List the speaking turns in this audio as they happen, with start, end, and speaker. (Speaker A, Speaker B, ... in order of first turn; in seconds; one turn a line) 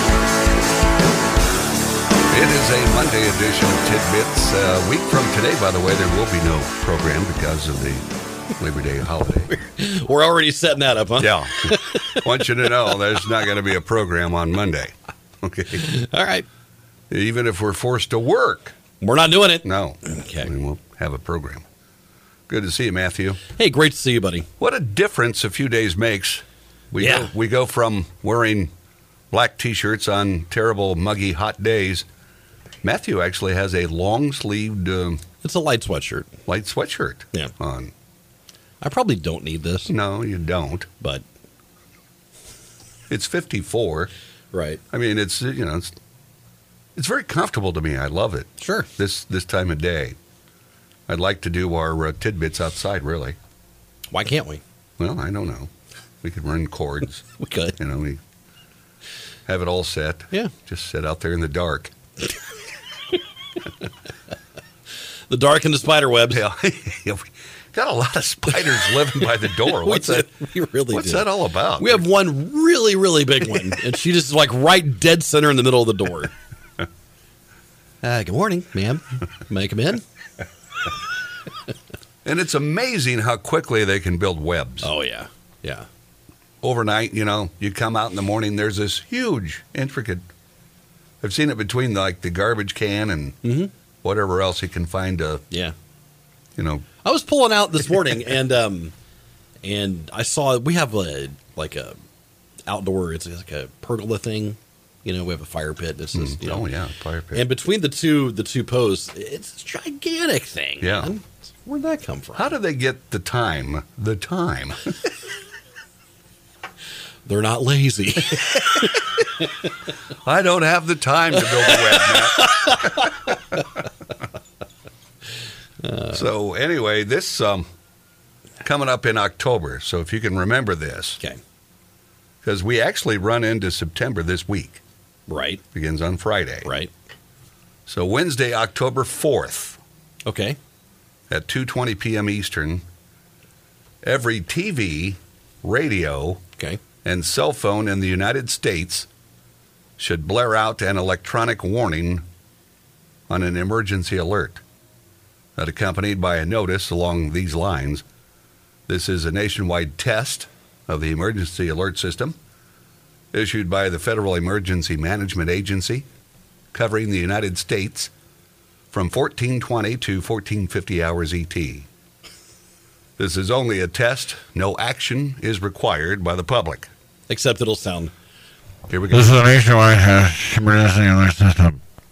Speaker A: 2.3-9.5
Speaker B: 9.5-12.2
Speaker A: 11.2-15.9
Speaker B: 15.8-16.4
Speaker A: 17.1-18.8
Speaker B: 19.0-20.5
Speaker A: 19.6-21.6
Speaker A: 22.5-23.4
Speaker B: 23.6-24.5
Speaker A: 24.6-28.7
Speaker B: 27.0-27.3
Speaker A: 29.3-32.0
Speaker A: 32.8-35.2
Speaker B: 35.4-36.3
Speaker A: 36.5-37.9
Speaker B: 38.8-39.9
Speaker A: 39.9-40.9
Speaker A: 43.1-44.1
Speaker B: 44.5-44.8
Speaker A: 44.9-45.9
Speaker A: 46.9-50.2
Speaker B: 48.6-48.9
Speaker A: 51.1-53.4
Speaker B: 54.1-54.6
Speaker A: 55.0-55.7
Speaker A: 56.2-58.2
Speaker B: 57.4-57.8
Speaker A: 59.5-61.9
Speaker B: 65.3-66.4
Speaker A: 66.3-70.3
Speaker B: 69.6-76.3
Speaker A: 70.9-72.0
Speaker B: 78.0-80.0
Speaker A: 82.2-84.9
Speaker B: 84.8-85.9
Speaker A: 86.6-90.2
Speaker A: 91.2-93.4
Speaker B: 93.4-93.7
Speaker A: 94.0-95.4
Speaker A: 96.5-96.9
Speaker B: 97.0-98.9
Speaker B: 99.6-102.0
Speaker B: 102.7-106.7
Speaker A: 106.1-107.4
Speaker B: 107.3-112.5
Speaker A: 110.8-111.1
Speaker A: 112.3-115.0
Speaker B: 117.2-119.0
Speaker A: 118.4-119.0
Speaker A: 120.1-123.6
Speaker B: 121.4-123.2
Speaker B: 125.8-126.2
Speaker A: 126.1-127.7
Speaker A: 128.6-131.2
Speaker A: 132.4-134.8
Speaker B: 135.3-135.6
Speaker A: 135.7-136.7
Speaker B: 136.6-136.9
Speaker A: 137.8-139.8
Speaker B: 140.2-140.6
Speaker A: 141.3-142.8
Speaker A: 144.0-146.4
Speaker A: 147.0-149.1
Speaker A: 150.0-152.2
Speaker A: 153.3-154.6
Speaker A: 155.6-158.0
Speaker A: 158.9-162.4
Speaker A: 163.3-166.1
Speaker A: 166.7-168.1
Speaker A: 168.9-171.9
Speaker A: 173.2-176.9
Speaker B: 177.3-178.1
Speaker A: 178.9-179.4
Speaker C: 179.1-181.8